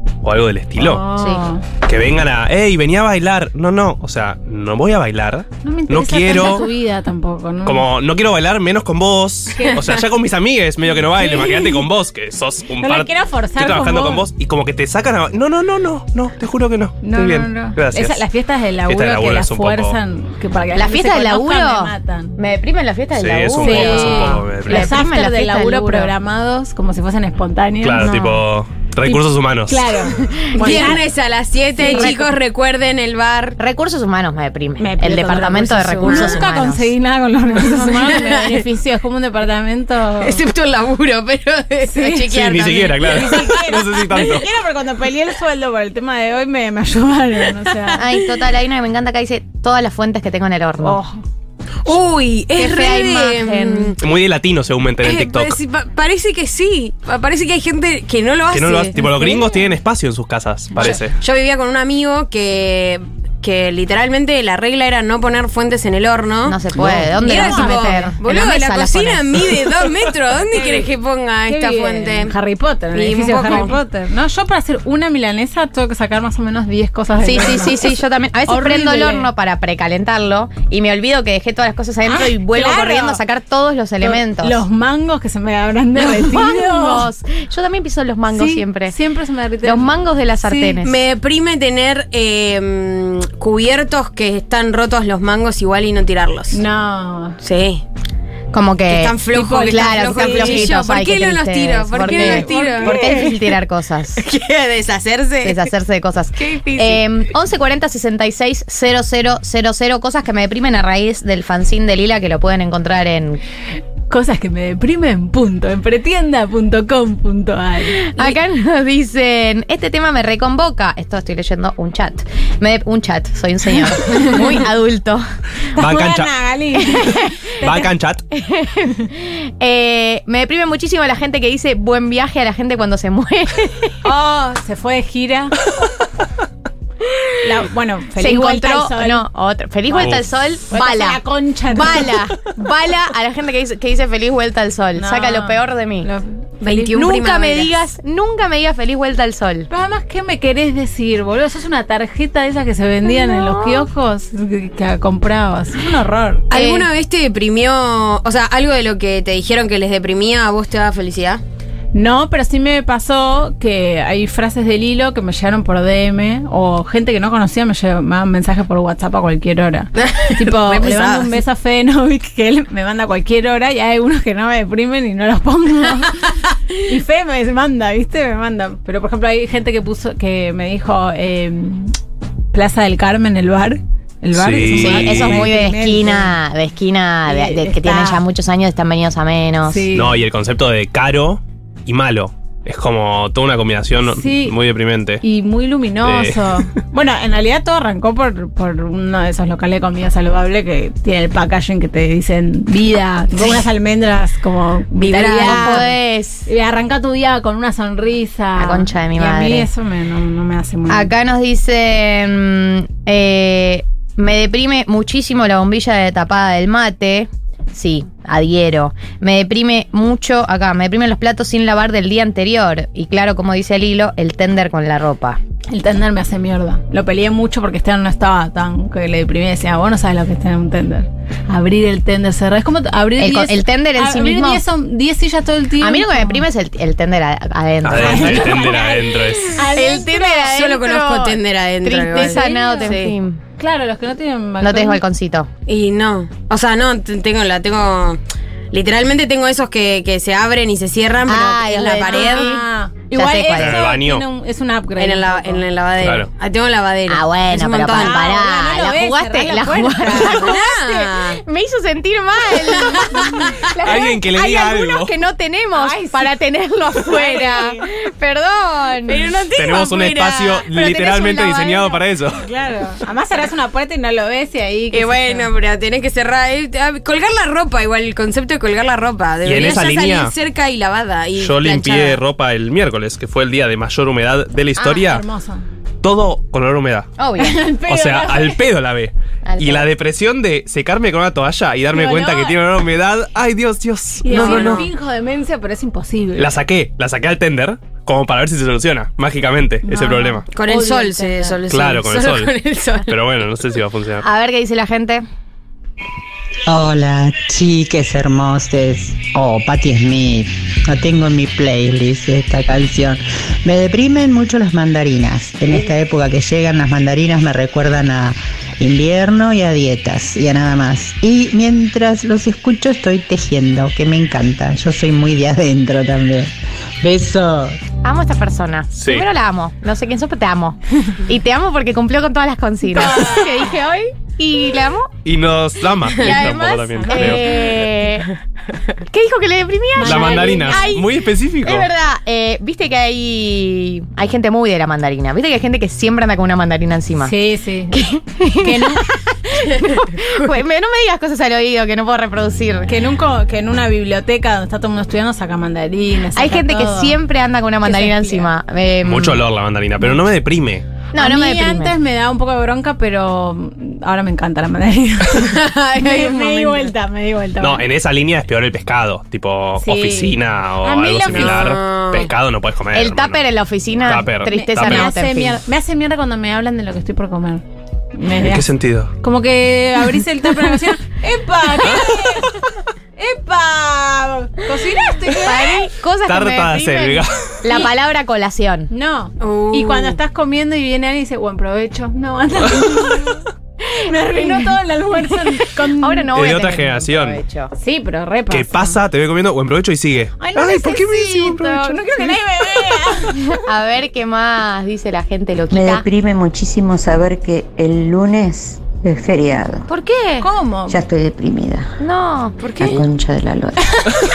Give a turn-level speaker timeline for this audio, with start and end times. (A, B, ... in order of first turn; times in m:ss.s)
0:00.2-0:01.0 A
0:00.8-0:01.6 B
0:01.8-0:06.7 A
0:05.6-0:07.8 B
0:07.6-0:18.2 A
0:09.5-0:09.8 B
0:10.9-0:11.8 B
0:12.8-0:14.2 B
0:17.0-0:22.4 B
0:18.9-0:20.0 A
0:20.7-0:26.1 C
0:23.1-0:25.0 A
0:23.6-0:28.4 B
0:27.8-0:29.9 A
0:29.0-0:31.0 B
0:30.6-0:33.6 D
0:30.6-0:30.9 C
0:31.8-0:32.1 B
0:31.8-0:32.4 C
0:33.6-0:36.9 C
0:34.8-0:40.4 B
0:36.0-0:36.4 D
0:37.8-0:38.6 D
0:40.2-0:43.4 D
0:41.8-0:42.3 B
0:42.3-0:44.5 A
0:43.0-0:48.0 B
0:48.0-0:51.0 C
0:50.8-0:51.2 B
0:51.8-0:54.0 D
0:52.5-0:53.9 C
0:54.0-0:55.6 A
0:55.0-0:59.3 D
0:58.5-1:01.2 A
0:59.1-0:59.4 B
1:00.8-1:12.3 D
1:06.4-1:09.6 C
1:07.2-1:08.2 B
1:10.5-1:10.9 B
1:11.5-1:17.9 B
1:12.9-1:13.8 D
1:17.2-1:24.6 C
1:18.4-1:19.3 B
1:22.0-1:23.2 B
1:24.0-1:27.1 B
1:26.0-1:28.9 C
1:28.3-1:29.9 B
1:29.6-1:31.0 C
1:30.4-1:30.8 B
1:30.8-1:36.6 D
1:36.5-1:37.4 B
1:37.4-1:37.8 D
1:38.5-1:44.2 C
1:38.9-1:43.3 D
1:39.3-1:40.7 B
1:42.0-1:43.4 B
1:44.2-1:45.7 D
1:45.4-1:53.4 C
1:46.4-1:47.0 D
1:54.1-1:58.4 B
1:58.0-2:05.2 C
2:04.1-2:04.5 B
2:05.7-2:07.9 B
2:05.8-2:06.3 A
2:06.8-2:07.3 C
2:07.6-2:08.2 A
2:08.3-2:14.0 C
2:14.0-2:15.6 B
2:17.4-2:19.3 B
2:18.2-2:26.1 C
2:19.9-2:20.2 B
2:20.0-2:20.2 A
2:20.7-2:22.2 B
2:25.0-2:26.9 B
2:26.6-2:27.7 D
2:26.9-2:29.7 C
2:29.7-2:36.5 B
2:33.2-2:33.8 C
2:36.5-2:41.4 D
2:36.5-2:36.9 C
2:41.9-3:02.0 B
2:50.0-2:51.4 D
3:02.5-3:06.3 B
3:04.3-3:05.5 A
3:04.7-3:09.8 C
3:07.3-3:08.2 B
3:09.7-3:10.2 B
3:09.9-3:15.2 A
3:14.1-3:14.6 B
3:15.2-3:25.9 B
3:16.0-3:16.7 A
3:25.0-3:25.8 D
3:25.1-3:26.5 C
3:26.4-3:31.1 B
3:28.6-3:29.7 C
3:30.9-3:45.4 C
3:45.7-3:56.4 B
3:53.2-3:54.6 C
3:55.8-3:58.8 C
3:57.8-3:59.6 A
3:57.9-4:00.5 B
3:59.7-4:03.4 C
4:00.4-4:03.1 D
4:02.2-4:03.0 B
4:03.6-4:05.0 B
4:04.6-4:05.5 C
4:05.7-4:08.2 D
4:08.7-4:12.6 D
4:11.2-4:13.8 C
4:12.0-4:15.6 B
4:13.6-4:14.2 A
4:15.0-4:18.3 D
4:16.0-4:16.3 A
4:17.1-4:29.4 C
4:17.9-4:20.7 B
4:20.2-4:21.4 D
4:22.8-4:23.5 D
4:23.1-4:23.5 B
4:23.8-4:25.1 A
4:25.7-4:26.4 B
4:27.0-4:27.9 B
4:29.1-4:30.7 D
4:29.5-4:32.4 A
4:30.8-4:31.9 C
4:32.4-4:35.5 B
4:34.9-4:42.2 D
4:39.4-4:40.3 A
4:41.4-4:45.2 A
4:44.8-4:45.6 B
4:46.0-4:47.1 A
4:47.2-4:47.6 C
4:47.4-4:48.6 B
4:47.9-4:54.8 A
4:49.4-4:49.9 C
4:51.9-4:52.6 B
4:54.2-4:56.5 B
4:54.3-4:54.7 C
4:54.3-4:54.9 D
4:56.4-5:00.4 A
4:59.8-5:01.6 B
5:00.5-5:03.1 D
5:01.7-5:02.5 A
5:03.0-5:04.2 A
5:04.2-5:05.2 C
5:06.7-5:27.8 E
5:28.0-5:35.1 C
5:28.9-5:29.2 A
5:32.9-5:33.5 B
5:35.2-5:37.8 A
5:36.2-5:38.3 C
5:36.9-5:37.6 B
5:39.1-5:47.3 C
5:39.9-5:41.0 B
5:40.0-5:41.9 A
5:47.2-5:48.0 B
5:47.9-5:52.9 C
5:48.6-5:49.0 B
5:52.9-5:57.2 B
5:56.3-5:59.4 C
5:57.8-5:58.5 B
5:59.0-6:00.8 A
6:01.1-6:02.0 C
6:01.2-6:07.8 B
6:05.4-6:06.9 D
6:07.6-6:13.4 A
6:09.8-6:11.7 B
6:11.3-6:12.3 D
6:12.9-6:15.6 C
6:14.0-6:15.1 A
6:14.5-6:18.7 B
6:18.4-6:19.1 A
6:19.2-6:22.6 B
6:21.8-6:22.1 A
6:23.2-6:25.8 B
6:25.3-6:28.9 C
6:26.2-6:27.4 A
6:28.9-6:33.4 B
6:29.4-6:30.2 D
6:34.0-6:36.3 B
6:34.1-6:37.7 C
6:36.3-6:37.4 A
6:37.8-6:39.0 B
6:38.5-6:42.0 A
6:40.4-6:43.6 B
6:40.8-6:41.9 C
6:43.2-6:46.0 C
6:45.7-6:49.9 F
6:49.9-6:50.5 C
6:50.4-6:51.0 B
6:50.9-6:51.9 F
6:52.0-6:53.0 C
6:52.6-6:53.0 D
6:52.8-6:54.0 F